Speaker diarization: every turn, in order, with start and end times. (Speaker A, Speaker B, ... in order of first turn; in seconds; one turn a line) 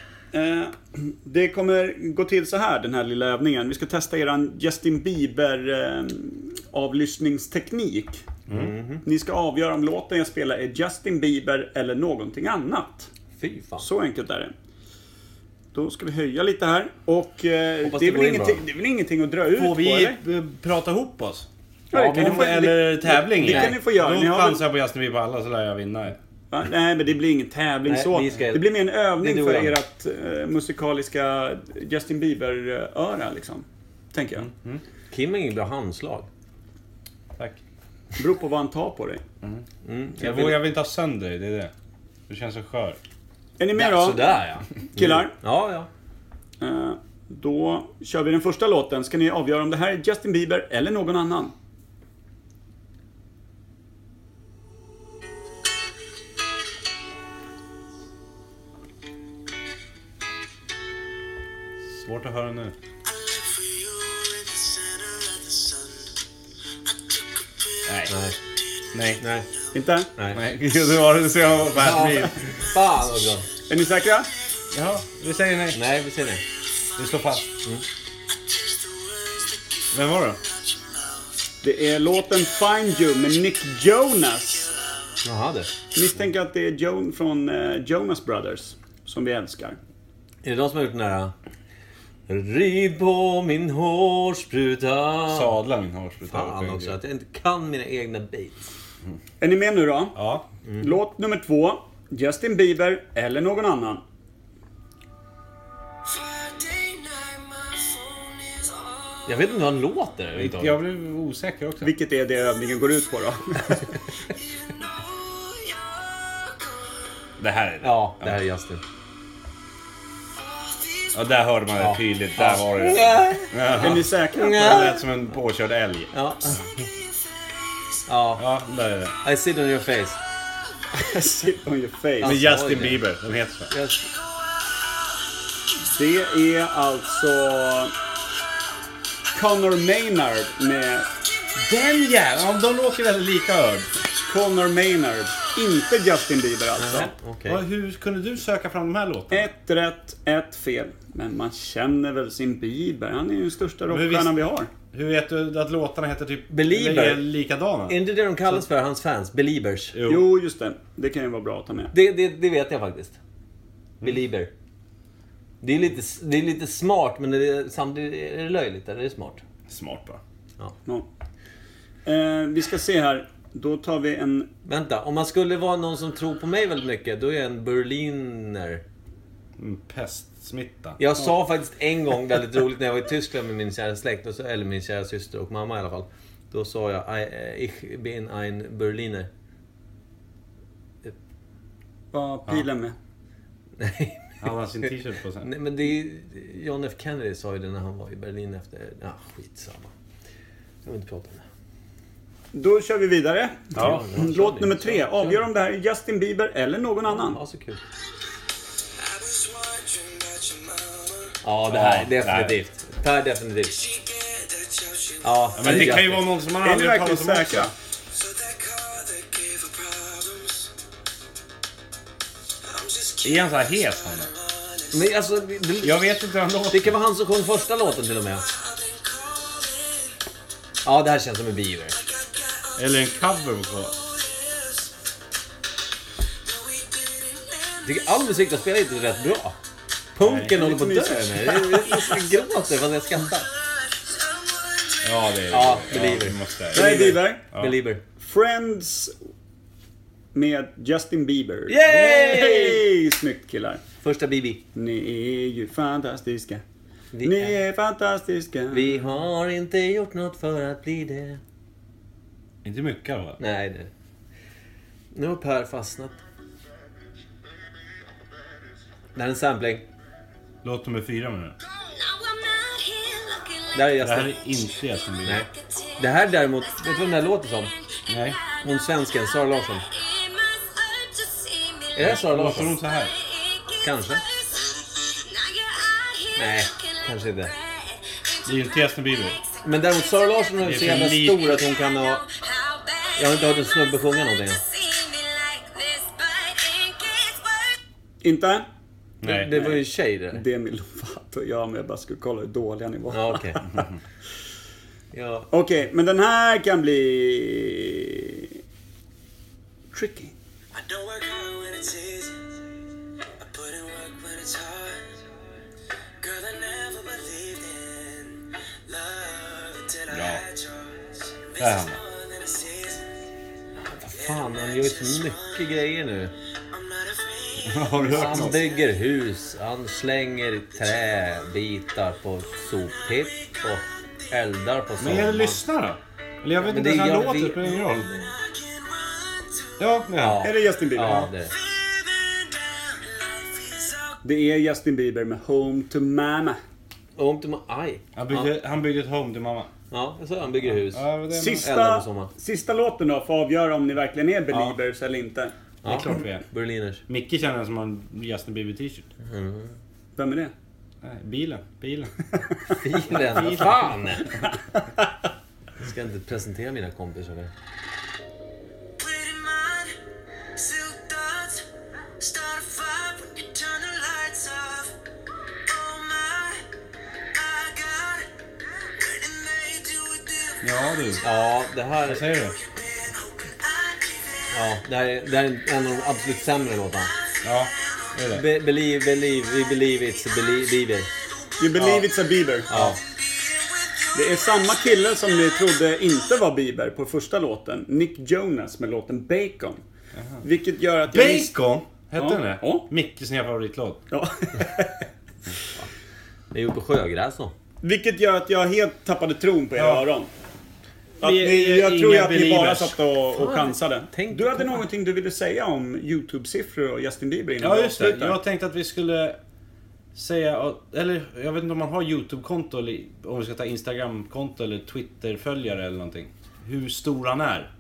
Speaker A: 0.3-8.3
Speaker B: 8.5-9.0
Speaker A: 9.0-13.1
Speaker B: 13.4-13.9
Speaker A: 13.8-14.5
Speaker A: 15.7-20.2
Speaker B: 17.8-18.6
Speaker C: 19.5-26.2
Speaker A: 21.9-24.6
Speaker B: 21.9-22.5
Speaker B: 23.4-23.8
Speaker A: 26.5-34.5
Speaker B: 27.9-29.8
Speaker C: 34.4-34.8
Speaker B: 35.1-36.3
Speaker A: 38.2-39.2
Speaker B: 39.8-40.6
Speaker C: 40.2-41.7
Speaker C: 42.3-43.0
Speaker A: 43.6-44.4
Speaker B: 43.8-45.9
Speaker A: 45.0-45.3
Speaker A: 46.6-51.5
Speaker C: 61.9-62.8
Speaker D: 63.0-66.2
Speaker D: 66.9-67.9
Speaker C: 67.9-68.1
Speaker B: 68.1-68.4
Speaker C: 68.9-69.2
Speaker B: 69.2-69.5
Speaker A: 69.7-70.1
Speaker B: 70.2-70.4
Speaker C: 70.3-72.5
Speaker B: 71.7-73.5
Speaker A: 73.7-74.3
Speaker C: 74.7-75.8
Speaker B: 75.7-76.4
Speaker C: 77.0-77.5
Speaker D: 78.3-80.0
Speaker C: 79.9-80.4
Speaker A: 81.6-84.7
Speaker B: 85.2-85.7
Speaker A: 85.9-89.8
Speaker B: 90.4-91.3
Speaker B: 92.3-95.5
Speaker C: 95.3-97.0
Speaker B: 96.3-98.7
Speaker A: 99.4-100.2
Speaker C: 100.2-100.5
Speaker B: 100.7-100.9
Speaker A: 100.8-104.0
Speaker D: 106.0-109.6
Speaker B: 109.3-110.8
Speaker C: 110.4-111.9
Speaker A: 111.8-113.9
Speaker D: 114.3-117.1
Speaker C: 117.4-118.3
Speaker B: 117.8-118.8
Speaker D: 120.4-121.2
Speaker C: 121.1-126.1
Speaker B: 121.8-125.0
Speaker A: 123.8-125.0
Speaker B: 126.1-126.6
Speaker D: 126.7-128.0
Speaker B: 128.1-128.4
Speaker C: 128.4-129.2
Speaker B: 129.2-130.2
Speaker A: 130.9-132.4
Speaker B: 132.2-133.1
Speaker C: 132.2-133.7
Speaker B: 133.7-134.1
Speaker A: 135.9-137.9
Speaker A: 139.3-141.1
Speaker C: 141.6-143.9
Speaker A: 144.3-147.1
Speaker B: 146.8-147.6
Speaker C: 147.5-149.5
Speaker A: 149.3-154.7
Speaker C: 153.9-154.4
Speaker C: 154.9-158.6
Speaker B: 156.5-157.2
Speaker B: 157.9-160.0
Speaker C: 159.9-160.3
Speaker A: 160.1-161.9
Speaker B: 161.9-163.2
Speaker B: 164.0-164.5
Speaker B: 165.6-169.4
Speaker C: 169.7-170.2
Speaker A: 172.1-174.5
Speaker B: 174.7-178.8
Speaker C: 179.6-181.0
Speaker B: 181.0-189.3
Speaker A: 192.1-193.0
Speaker B: 193.8-194.9
Speaker C: 194.4-195.5
Speaker B: 195.4-199.9
Speaker B: 200.8-201.5
Speaker A: 202.5-207.4
Speaker C: 203.8-204.1
Speaker B: 203.8-205.4
Speaker B: 207.1-207.8
Speaker D: 209.0-211.4
Speaker B: 211.4-213.8
Speaker C: 211.7-212.6
Speaker D: 213.7-215.8
Speaker B: 215.2-216.3
Speaker C: 215.6-217.7
Speaker A: 216.5-217.7
Speaker D: 218.1-220.7
Speaker D: 222.6-225.1
Speaker C: 223.2-224.3
Speaker B: 224.9-226.0
Speaker C: 225.8-227.0
Speaker B: 226.7-228.5
Speaker D: 228.4-230.2
Speaker B: 230.8-232.0
Speaker D: 231.9-234.9
Speaker C: 232.8-233.9
Speaker D: 236.4-238.5
Speaker B: 237.8-239.6
Speaker B: 240.2-243.5
Speaker C: 240.2-240.5
Speaker A: 240.5-242.1
Speaker D: 243.2-245.3
Speaker C: 245.0-247.8
Speaker B: 245.5-248.0
Speaker A: 246.7-247.4
Speaker A: 248.2-249.2
Speaker A: 250.3-253.8
Speaker B: 251.7-252.8
Speaker C: 251.9-252.5
Speaker B: 254.0-254.6
Speaker A: 254.8-256.6
Speaker B: 257.1-257.6
Speaker A: 257.2-259.1
Speaker B: 258.7-261.4
Speaker C: 262.6-263.4
Speaker B: 263.4-263.9
Speaker B: 265.1-266.2
Speaker B: 269.1-269.9
Speaker C: 270.6-271.6
Speaker D: 271.7-273.7
Speaker B: 273.7-274.4
Speaker C: 274.0-275.5
Speaker B: 275.2-277.7
Speaker D: 275.6-276.0
Speaker C: 278.1-278.4
Speaker B: 278.6-279.9
Speaker D: 280.0-281.9
Speaker B: 281.9-282.8
Speaker C: 282.0-283.1
Speaker B: 283.8-284.2
Speaker D: 284.5-286.3
Speaker B: 286.4-287.5
Speaker C: 288.4-289.4
Speaker B: 289.6-292.2
Speaker C: 290.6-291.7
Speaker D: 292.3-293.0
Speaker B: 293.2-294.6
Speaker D: 294.9-297.5
Speaker A: 298.2-298.7
Speaker C: 299.2-299.5
Speaker B: 299.2-300.4
Speaker A: 299.5-299.8
Speaker A: 300.3-303.9
Speaker B: 303.1-303.6
Speaker B: 305.1-305.5
Speaker A: 305.5-308.6
Speaker A: 309.9-310.3
Speaker D: 310.7-312.6
Speaker D: 313.4-315.2
Speaker D: 316.2-323.1
Speaker C: 320.1-320.4
Speaker C: 321.6-322.0
Speaker B: 323.9-326.3
Speaker D: 324.1-325.9
Speaker D: 326.7-328.9
Speaker C: 327.6-328.6
Speaker B: 328.1-335.6
Speaker D: 332.9-333.7
Speaker C: 335.0-338.1
Speaker B: 336.6-338.3
Speaker D: 338.0-340.0
Speaker C: 339.8-340.5
Speaker B: 340.2-341.5
Speaker A: 340.4-341.3
Speaker D: 341.6-344.2
Speaker A: 344.2-346.6
Speaker B: 347.2-348.5
Speaker C: 348.1-349.7
Speaker B: 349.9-351.1
Speaker C: 350.6-351.7
Speaker A: 351.3-355.5
Speaker B: 351.6-352.3
Speaker B: 355.8-357.0
Speaker C: 355.9-356.4
Speaker C: 357.1-359.1
Speaker B: 359.2-359.8
Speaker A: 360.2-360.5
Speaker C: 361.0-362.2
Speaker B: 362.8-364.3
Speaker C: 363.1-363.9
Speaker B: 365.8-367.5
Speaker D: 369.0-370.0
Speaker D: 370.6-375.0
Speaker D: 375.7-376.6
Speaker D: 377.3-381.2
Speaker C: 380.6-381.2
Speaker B: 381.2-382.2
Speaker C: 382.1-382.6
Speaker D: 382.5-384.5
Speaker B: 384.5-387.1
Speaker C: 387.4-388.4
Speaker B: 388.3-391.1
Speaker D: 391.3-391.6
Speaker A: 391.6-392.7
Speaker C: 391.8-392.1
Speaker B: 392.7-393.0
Speaker C: 392.7-393.0
Speaker D: 393.1-394.2
Speaker A: 394.1-399.8
Speaker C: 400.2-400.4
Speaker A: 400.4-401.5
Speaker C: 401.1-404.0
Speaker A: 402.2-402.9
Speaker A: 404.1-405.1
Speaker B: 406.5-407.5
Speaker A: 407.8-410.3
Speaker C: 409.8-410.1
Speaker A: 411.2-418.4
Speaker C: 411.2-413.0
Speaker B: 413.3-414.8
Speaker C: 417.6-419.4
Speaker C: 420.1-427.7